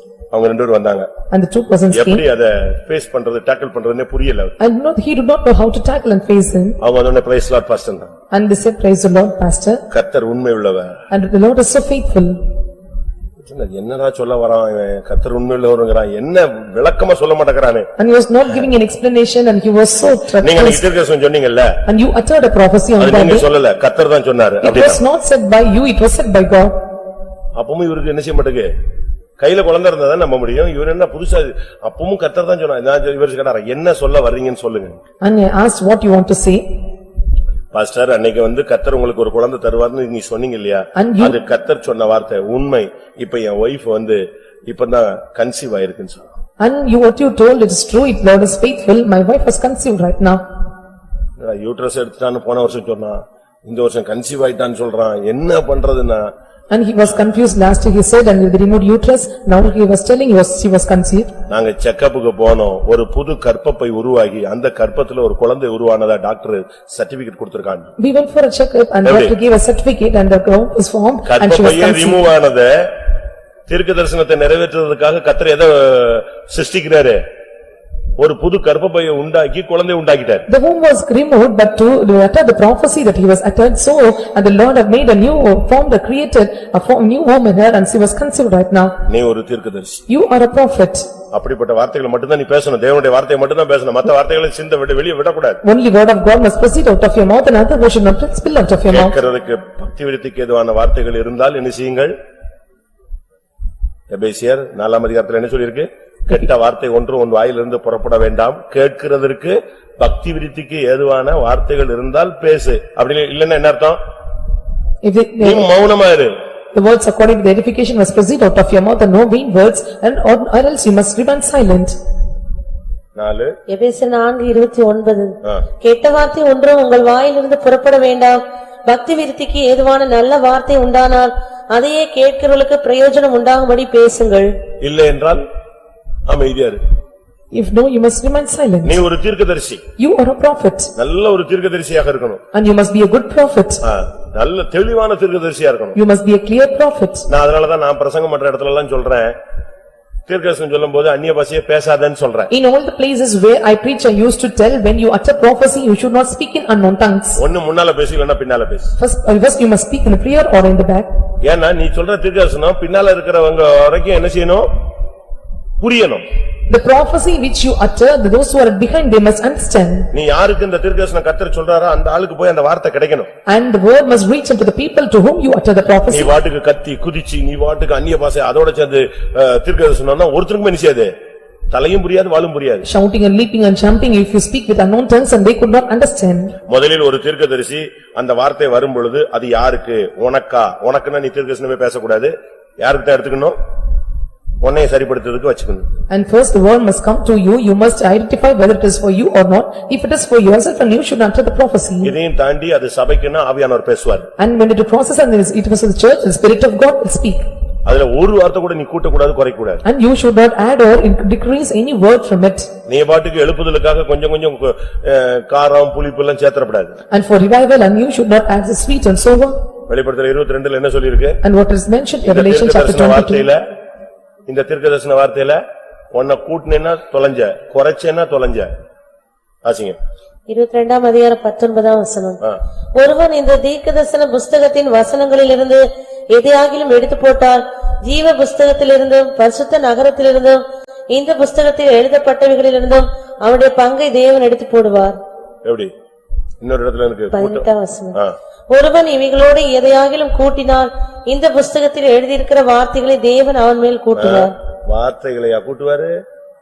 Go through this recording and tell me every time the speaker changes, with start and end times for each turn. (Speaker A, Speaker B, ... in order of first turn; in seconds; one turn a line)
Speaker A: 0.3-1.1
Speaker B: 1.3-2.2
Speaker A: 1.9-4.5
Speaker B: 4.6-6.8
Speaker A: 6.8-8.1
Speaker B: 8.3-9.8
Speaker A: 9.9-10.9
Speaker B: 11.1-12.4
Speaker A: 13.4-17.9
Speaker B: 18.0-20.8
Speaker A: 20.4-21.8
Speaker B: 21.9-23.4
Speaker A: 23.0-25.0
Speaker B: 24.6-26.7
Speaker A: 27.6-28.7
Speaker A: 29.4-35.0
Speaker B: 35.2-36.7
Speaker A: 37.7-46.3
Speaker B: 41.0-41.4
Speaker B: 46.6-50.4
Speaker A: 51.4-56.3
Speaker B: 56.7-61.3
Speaker A: 61.5-67.9
Speaker B: 68.0-72.2
Speaker A: 69.0-69.3
Speaker A: 71.2-72.9
Speaker A: 73.7-77.2
Speaker A: 78.2-80.5
Speaker B: 80.5-89.0
Speaker A: 89.1-90.0
Speaker B: 90.1-91.1
Speaker A: 91.3-95.6
Speaker B: 95.6-99.2
Speaker A: 98.9-102.1
Speaker A: 104.1-114.0
Speaker B: 115.0-115.7
Speaker A: 115.4-116.3
Speaker B: 116.7-121.9
Speaker A: 123.2-123.5
Speaker C: 123.7-134.5
Speaker A: 134.8-135.4
Speaker A: 136.3-136.8
Speaker B: 137.5-139.0
Speaker A: 138.8-139.8
Speaker B: 140.0-140.9
Speaker A: 140.9-142.4
Speaker B: 142.5-143.8
Speaker A: 143.8-146.0
Speaker B: 145.9-147.3
Speaker A: 147.3-149.3
Speaker A: 150.3-152.5
Speaker B: 152.5-157.4
Speaker A: 157.4-158.9
Speaker B: 159.0-161.1
Speaker A: 161.4-164.7
Speaker A: 165.8-166.2
Speaker B: 166.7-170.1
Speaker A: 170.1-173.3
Speaker B: 173.5-176.3
Speaker A: 176.1-181.1
Speaker A: 181.7-182.9
Speaker B: 182.8-186.6
Speaker A: 186.7-193.6
Speaker A: 194.6-195.9
Speaker B: 196.1-202.1
Speaker A: 202.0-204.3
Speaker B: 204.4-207.4
Speaker A: 207.8-209.8
Speaker B: 209.8-212.7
Speaker A: 212.9-217.0
Speaker B: 217.1-219.6
Speaker A: 219.9-221.4
Speaker B: 221.4-223.4
Speaker A: 222.2-223.6
Speaker A: 224.5-225.6
Speaker A: 226.1-228.7
Speaker A: 229.6-230.0
Speaker C: 230.5-232.4
Speaker C: 232.9-245.2
Speaker A: 245.6-245.9
Speaker A: 246.6-248.3
Speaker C: 247.3-248.2
Speaker C: 248.7-254.5
Speaker A: 254.1-256.1